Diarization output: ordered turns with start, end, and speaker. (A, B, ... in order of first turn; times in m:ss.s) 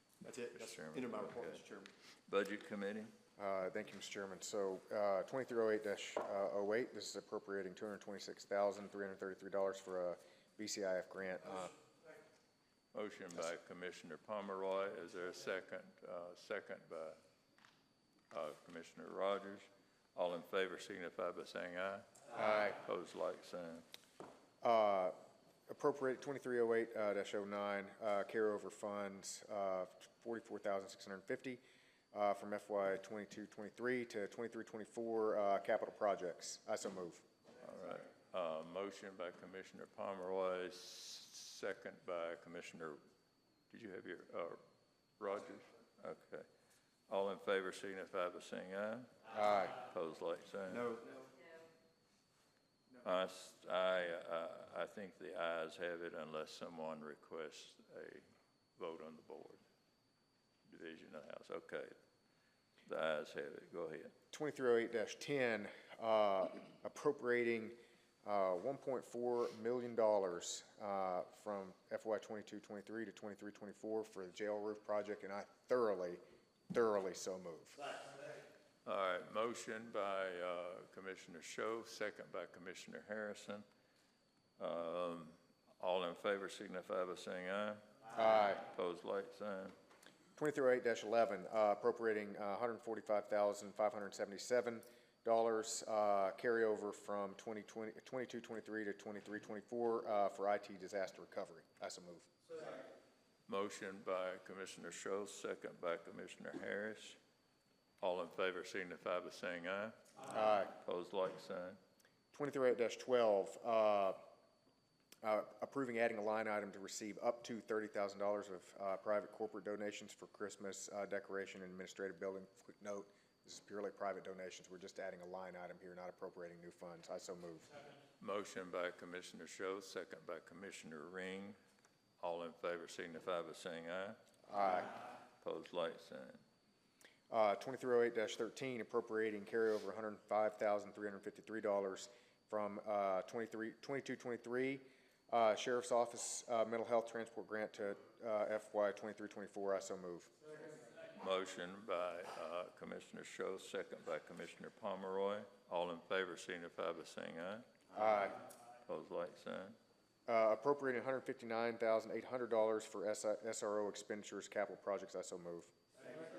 0:00.2-0:01.9 A
0:00.6-0:01.6 B
0:02.3-0:03.1 B
0:03.4-0:11.7 C
0:12.9-0:17.2 B
0:18.3-0:22.1 B
0:22.3-0:22.8 C
0:22.7-0:23.8 B
0:24.6-0:25.1 C
0:25.7-0:31.6 C
0:32.1-0:37.2 C
0:37.6-0:43.0 B
0:43.7-0:44.6 B
0:45.2-0:46.5 B
0:47.1-0:49.1 B
0:49.3-0:49.7 C
0:49.7-0:50.9 B
0:50.7-0:51.3 A
0:53.0-0:58.3 B
0:58.8-0:59.6 B
1:00.7-1:01.9 B
1:02.8-1:04.1 B
1:04.3-1:16.2 C
1:16.7-1:17.8 C
1:18.8-1:23.6 B
1:24.6-1:27.8 B
1:28.2-1:28.6 C
1:28.4-1:29.7 B
1:30.4-1:42.3 C
1:43.5-1:47.2 B
1:48.0-1:51.8 B
1:50.3-1:50.7 C
1:52.3-1:54.2 C
1:55.2-2:07.7 C
2:08.2-2:11.6 B
2:12.2-2:14.2 B
2:14.5-2:14.9 C
2:15.4-2:16.4 B
2:17.3-2:30.3 C
2:31.2-2:37.6 B
2:37.9-2:38.4 C
2:38.9-2:39.8 B
2:40.3-2:45.7 C